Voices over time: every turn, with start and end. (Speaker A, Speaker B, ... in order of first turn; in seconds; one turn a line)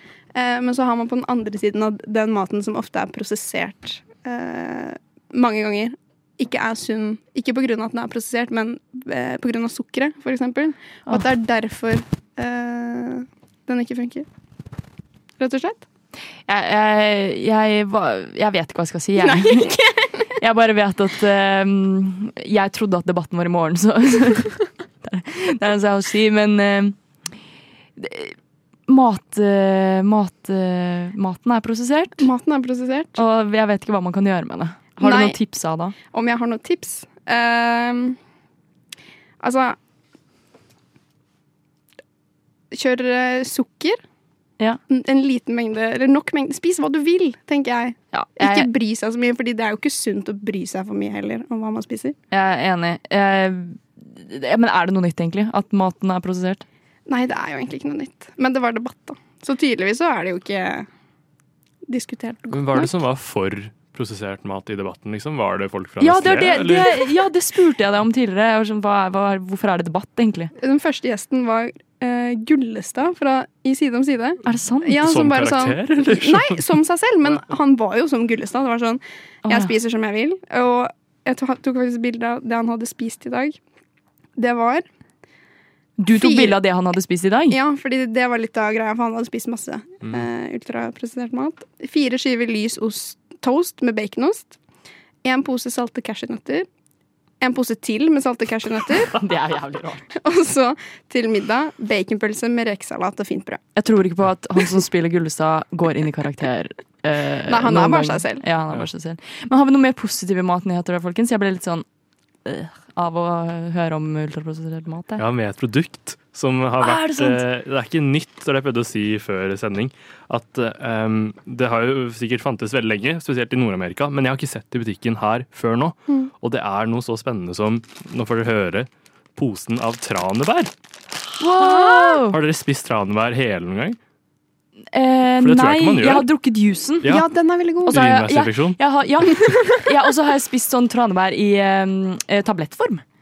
Speaker A: 0.3-14.2
Speaker A: 15.4-15.8
Speaker B: 16.5-19.8
Speaker A: 19.2-20.1
Speaker B: 20.4-26.9
Speaker B: 28.0-28.3
Speaker B: 28.9-32.3
Speaker A: 32.2-33.2
Speaker B: 33.1-35.9
Speaker A: 35.0-35.4
Speaker A: 36.1-38.2
Speaker A: 39.4-39.8
Speaker A: 42.7-44.0
Speaker A: 44.9-52.1
Speaker B: 48.1-48.7
Speaker B: 52.3-56.6
Speaker A: 57.1-60.9
Speaker A: 61.9-62.9
Speaker C: 62.5-67.1
Speaker B: 66.0-70.5
Speaker A: 70.6-83.6
Speaker B: 74.4-75.0
Speaker C: 75.0-76.6
Speaker B: 79.4-79.7
Speaker A: 84.4-84.8
Speaker B: 86.0-87.6
Speaker A: 86.1-86.6
Speaker A: 87.5-94.5
Speaker A: 95.2-96.7
Speaker A: 97.4-99.1
Speaker B: 99.1-100.1
Speaker A: 100.2-103.6
Speaker B: 103.8-111.8
Speaker A: 107.5-108.4
Speaker B: 112.5-115.2
Speaker C: 115.2-130.7
Speaker B: 116.8-117.4
Speaker B: 131.4-132.4
Speaker A: 131.7-132.2
Speaker C: 132.3-134.0
Speaker B: 134.9-137.1
Speaker C: 135.4-136.3
Speaker A: 137.0-138.0
Speaker B: 137.8-143.0
Speaker C: 137.9-138.8
Speaker A: 139.4-139.8